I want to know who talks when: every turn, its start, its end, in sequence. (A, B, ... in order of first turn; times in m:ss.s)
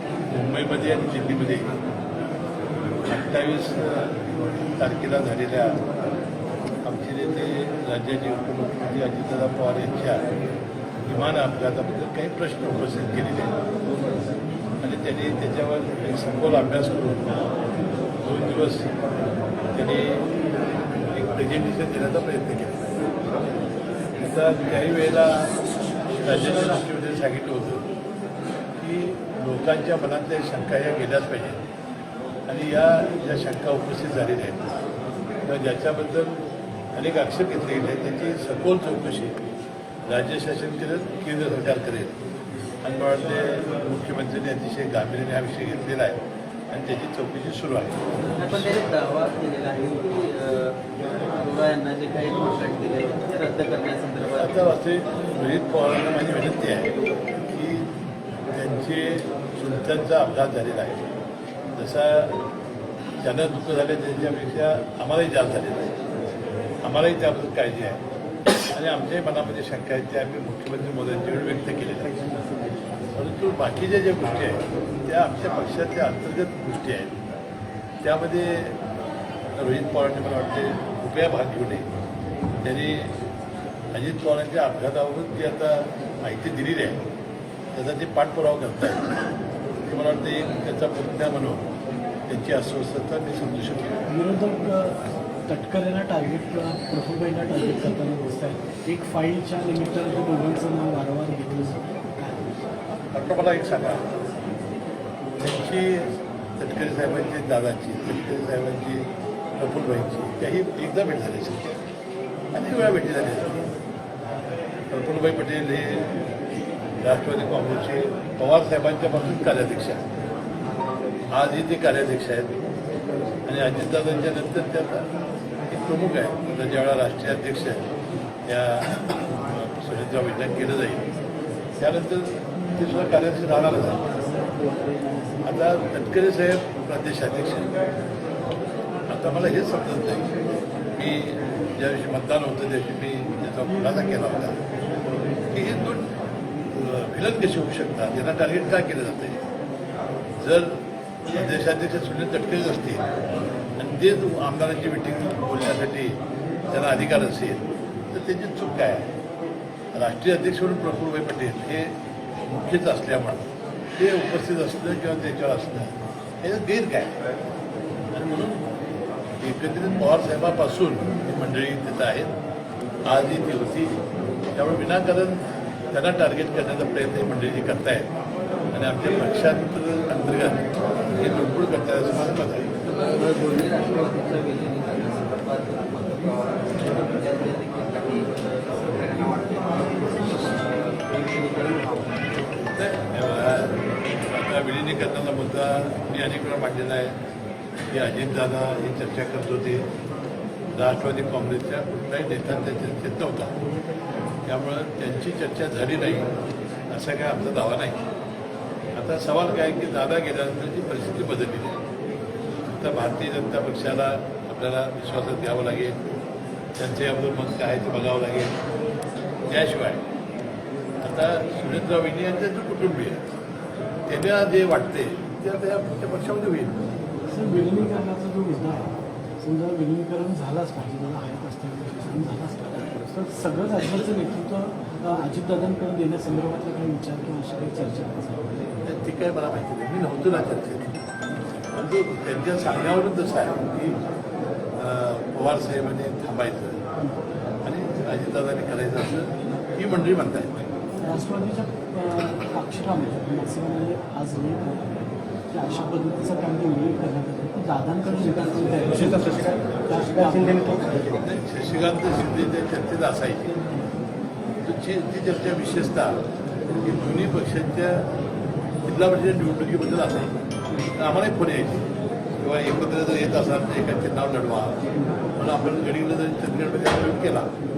0:00.3-0:01.7 A
0:03.1-0:04.2 A
0:04.8-0:05.8 A
0:06.8-0:10.3 A
0:11.1-0:13.5 A
0:14.8-0:17.5 A
0:18.2-0:18.9 A
0:19.7-0:20.3 A
0:21.1-0:22.9 A
0:24.2-0:25.6 A
0:26.2-0:27.9 A
0:28.8-0:31.6 A
0:32.5-0:34.8 A
0:35.4-0:39.4 A
0:40.1-0:42.2 A
0:42.8-0:48.0 A
0:48.4-0:54.7 B
0:54.4-0:57.9 A
0:58.5-1:01.1 A
1:01.7-1:02.4 A
1:03.2-1:06.0 A
1:06.8-1:08.0 A
1:08.7-1:12.5 A
1:13.1-1:17.3 A
1:18.0-1:18.8 A
1:19.6-1:21.9 A
1:22.6-1:23.2 A
1:23.9-1:27.1 A
1:27.7-1:29.1 A
1:29.8-1:31.7 A
1:32.3-1:34.0 A
1:34.1-1:42.6 C
1:43.1-1:44.1 A
1:45.4-1:51.8 A
1:52.5-1:53.7 A
1:54.9-1:56.1 A
1:57.0-2:00.0 A
2:01.3-2:02.6 A
2:03.5-2:05.1 A
2:05.7-2:07.9 A
2:08.5-2:11.1 A
2:11.8-2:14.3 A
2:14.4-2:15.2 C
2:15.4-2:17.7 A
2:19.1-2:20.3 A
2:20.9-2:24.6 A
2:25.5-2:26.1 A
2:26.7-2:29.4 A
2:30.4-2:33.1 A
2:33.8-2:39.1 A
2:39.9-2:47.2 A
2:48.1-2:48.6 A
2:49.4-2:52.4 A
2:53.0-2:54.0 A
2:54.6-2:58.1 A
2:58.7-3:02.7 A
3:02.8-3:12.2 B
3:12.7-3:17.2 A
3:17.9-3:19.9 A
3:20.7-3:23.6 A
3:24.4-3:26.3 A
3:26.9-3:28.1 A
3:29.0-3:31.8 A
3:32.7-3:36.0 A
3:36.8-3:38.6 A
3:39.5-3:40.0 A
3:41.0-3:43.2 A
3:44.1-3:47.0 A
3:47.3-3:58.6 C
3:58.8-4:01.0 A
4:01.7-4:04.0 A
4:04.8-4:06.8 A
4:07.6-4:10.6 A
4:11.0-4:21.0 C
4:20.9-4:23.6 A
4:24.6-4:26.2 A
4:26.8-4:28.1 A
4:28.8-4:34.8 A
4:35.4-4:37.5 A